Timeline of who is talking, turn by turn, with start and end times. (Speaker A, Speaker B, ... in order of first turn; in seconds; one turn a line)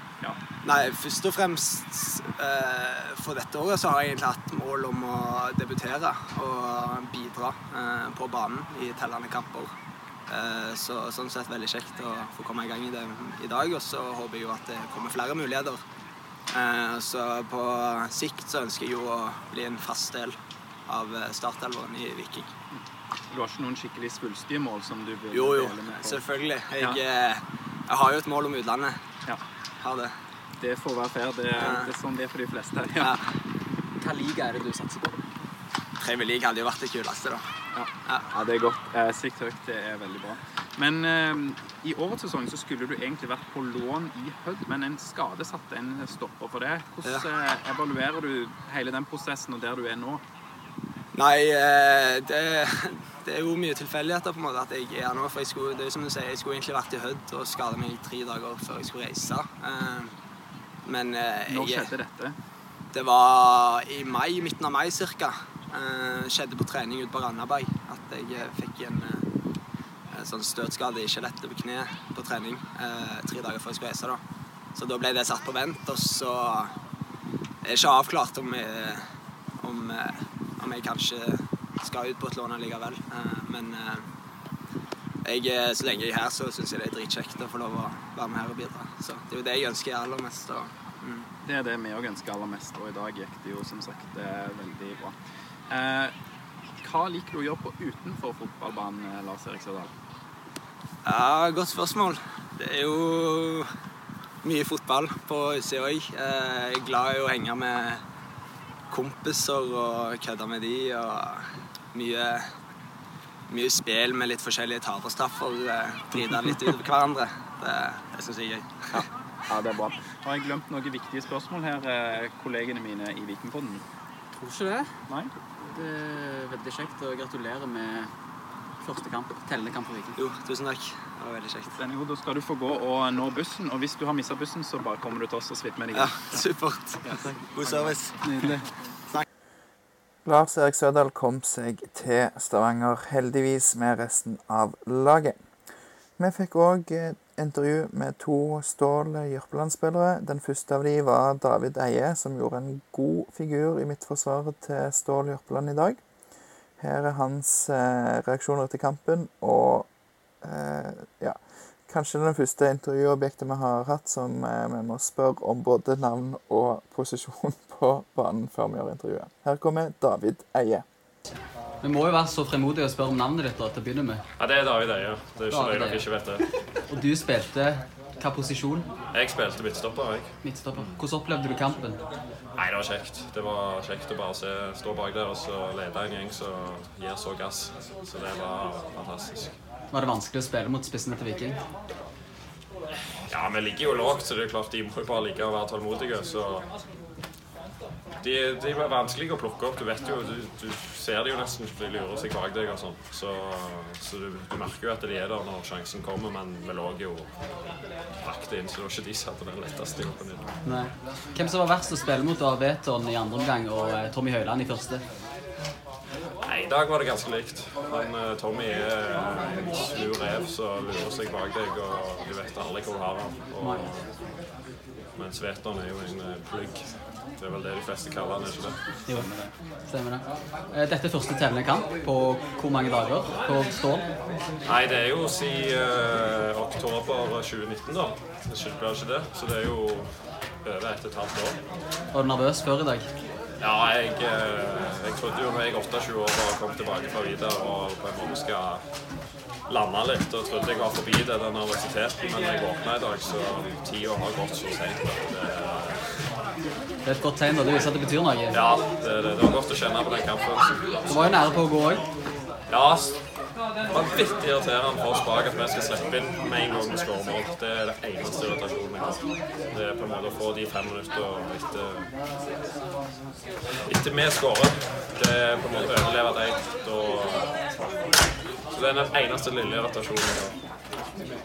Speaker A: 0.6-9.7
Speaker A: 10.3-15.8
Speaker A: 16.5-22.5
Speaker B: 22.7-26.3
Speaker A: 25.3-29.0
Speaker A: 29.8-30.1
Speaker B: 30.6-33.2
Speaker A: 31.5-32.0
Speaker A: 33.0-33.2
Speaker C: 34.0-35.1
Speaker A: 36.0-37.5
Speaker B: 37.7-50.2
Speaker A: 47.0-47.3
Speaker A: 51.1-60.1
Speaker A: 60.8-61.9
Speaker B: 61.5-62.4
Speaker A: 62.9-69.3
Speaker A: 70.1-74.2
Speaker A: 74.8-76.8
Speaker A: 77.6-79.1
Speaker A: 79.6-84.1
Speaker A: 85.2-91.3
Speaker B: 91.5-95.2
Speaker B: 95.7-96.1
Speaker B: 96.7-99.9
Speaker A: 101.0-103.7
Speaker A: 104.4-108.0
Speaker A: 108.9-112.5
Speaker A: 113.5-119.1
Speaker B: 118.9-123.8
Speaker C: 124.4-124.9
Speaker C: 125.6-128.1
Speaker C: 128.8-130.2
Speaker A: 130.2-131.8
Speaker B: 131.8-136.4
Speaker A: 135.9-138.2
Speaker B: 137.0-137.7
Speaker B: 138.2-138.5
Speaker D: 140.2-145.4
Speaker D: 146.2-156.0
Speaker D: 156.8-159.9
Speaker D: 160.4-170.8
Speaker C: 171.8-174.2
Speaker E: 174.4-176.4
Speaker C: 175.5-176.1
Speaker C: 176.9-178.9
Speaker E: 179.1-180.3
Speaker C: 180.4-182.0
Speaker E: 182.6-189.5
Speaker C: 189.9-191.6
Speaker E: 193.3-196.7
Speaker E: 198.2-207.3
Speaker E: 208.2-210.5
Speaker C: 210.7-215.0
Speaker E: 216.4-224.1
Speaker E: 225.2-228.8
Speaker C: 229.1-234.1
Speaker E: 234.7-241.6
Speaker C: 242.1-243.1
Speaker E: 243.6-248.8
Speaker E: 249.7-256.3
Speaker C: 257.0-258.6
Speaker E: 258.5-261.3
Speaker C: 261.1-262.0
Speaker E: 262.7-263.2
Speaker E: 263.9-272.1
Speaker E: 273.9-277.5
Speaker E: 278.7-280.6